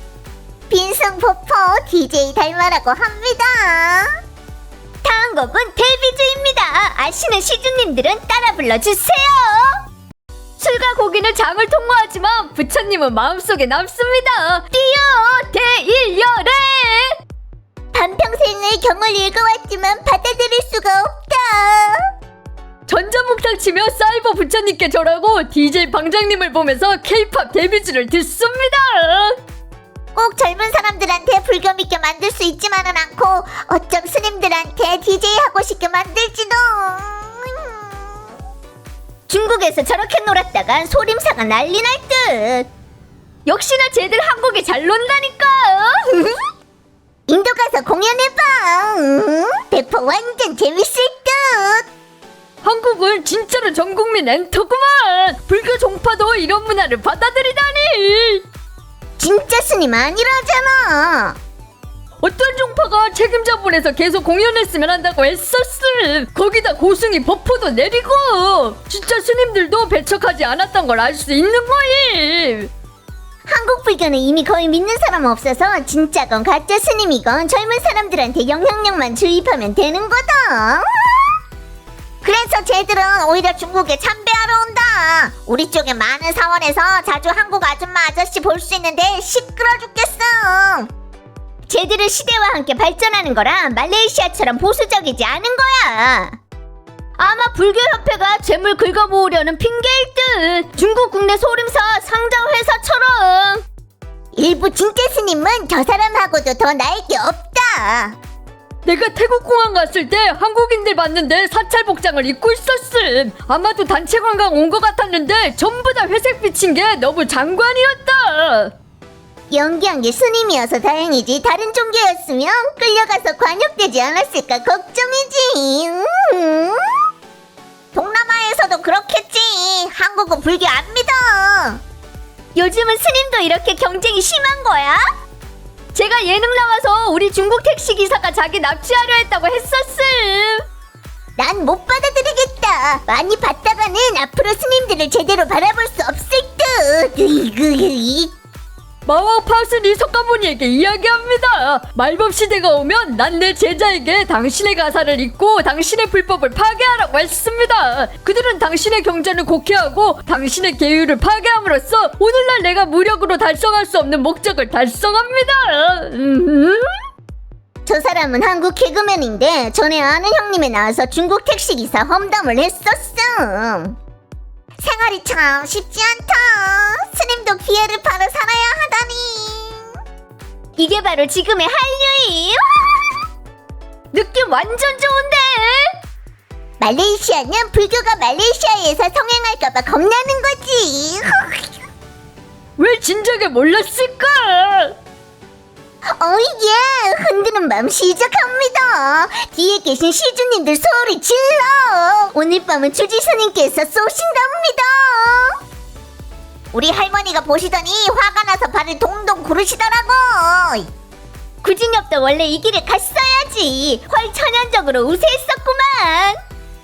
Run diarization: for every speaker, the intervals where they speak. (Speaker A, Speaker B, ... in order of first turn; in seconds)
Speaker A: 0.7-4.1, 17.9-22.1, 30.1-38.2, 40.8-42.7, 47.3-51.9, 59.2-61.4, 73.5-81.4, 82.2-90.9, 91.7-96.3, 104.4-108.1, 119.5-127.1, 127.9-131.8, 141.4-148.3, 167.9-174.0, 174.8-180.0, 186.8-191.7, 196.1-205.6, 206.7-210.9
Speaker B: 10.6-17.2, 22.9-29.4, 43.5-46.2, 52.6-58.4, 62.2-72.7, 97.2-103.6, 108.8-118.7, 132.6-134.8, 135.9-140.6, 149.1-167.0, 180.8-181.4, 184.1-185.9, 192.8-194.9, 211.6-212.5